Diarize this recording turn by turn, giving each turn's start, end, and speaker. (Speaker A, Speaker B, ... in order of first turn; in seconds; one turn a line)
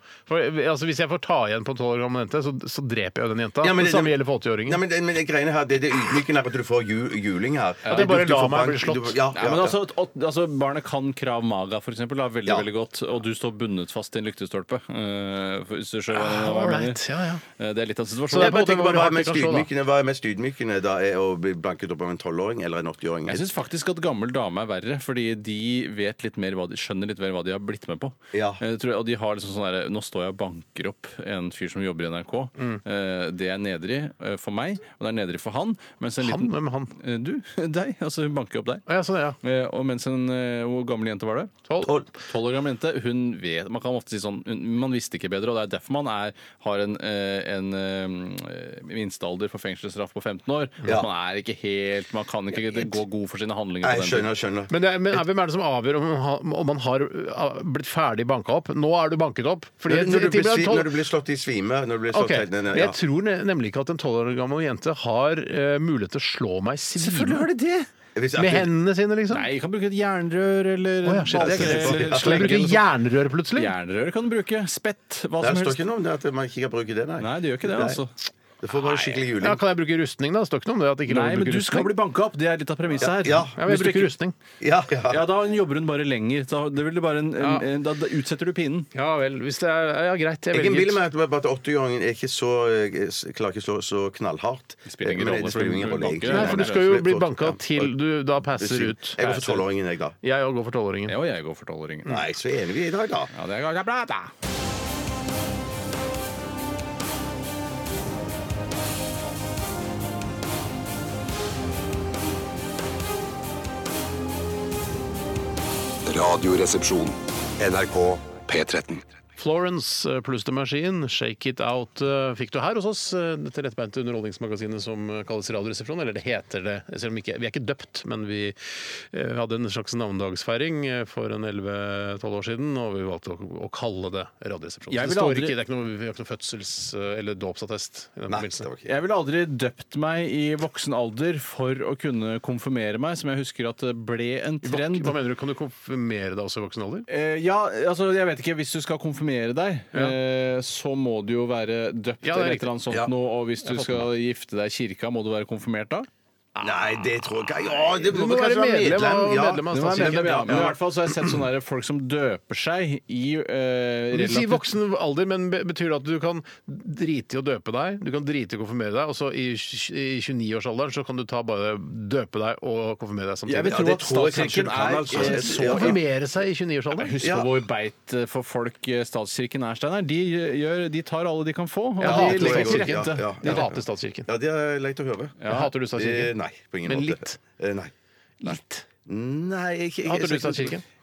Speaker A: 0.3-4.8
Speaker B: 3.6-9.8
Speaker A: 7.9-9.2
Speaker C: 9.3-17.0
Speaker A: 16.1-17.4
Speaker C: 17.6-18.6
Speaker A: 18.3-19.7
Speaker B: 18.3-23.5
Speaker C: 23.3-38.9
Speaker B: 28.3-28.6
Speaker A: 36.2-36.9
Speaker A: 38.9-39.4
Speaker C: 39.4-41.5
Speaker B: 41.8-42.1
Speaker C: 42.2-54.3
Speaker B: 53.8-54.7
Speaker A: 54.7-61.0
Speaker B: 59.9-63.0
Speaker A: 62.1-67.5
Speaker C: 67.0-67.9
Speaker B: 68.2-68.7
Speaker A: 68.3-69.5
Speaker C: 69.3-72.9
Speaker A: 71.0-73.7
Speaker B: 71.3-72.6
Speaker C: 73.5-75.8
Speaker B: 75.4-78.0
Speaker C: 77.2-78.1
Speaker B: 78.6-79.6
Speaker C: 78.8-79.2
Speaker A: 79.4-81.9
Speaker C: 81.1-84.1
Speaker B: 83.0-83.5
Speaker A: 83.5-84.4
Speaker B: 84.6-85.3
Speaker C: 85.1-88.9
Speaker A: 87.4-87.7
Speaker A: 88.9-91.0
Speaker B: 90.5-97.9
Speaker C: 94.9-96.9
Speaker A: 96.3-99.2
Speaker B: 98.5-100.2
Speaker C: 99.2-99.6
Speaker A: 100.2-101.2
Speaker C: 101.1-102.2
Speaker B: 102.1-103.3
Speaker C: 103.3-104.3
Speaker D: 116.1-119.0
Speaker A: 119.4-138.7
Speaker C: 134.9-135.6
Speaker B: 138.3-138.9
Speaker C: 138.8-145.2
Speaker A: 144.6-147.1
Speaker C: 147.1-156.1
Speaker A: 152.2-152.7
Speaker A: 153.6-154.1
Speaker B: 156.6-160.8
Speaker A: 158.0-160.8
Speaker C: 159.7-164.7
Speaker A: 164.1-174.5
Speaker C: 173.5-176.0
Speaker B: 173.7-176.0
Speaker A: 175.1-177.1
Speaker C: 177.0-183.7
Speaker B: 177.2-177.5
Speaker A: 182.0-184.3
Speaker B: 182.0-185.4
Speaker C: 185.4-185.7
Speaker A: 185.5-186.3
Speaker B: 185.9-187.9
Speaker A: 186.8-187.4
Speaker A: 188.4-188.9
Speaker B: 189.1-190.8
Speaker A: 190.1-190.8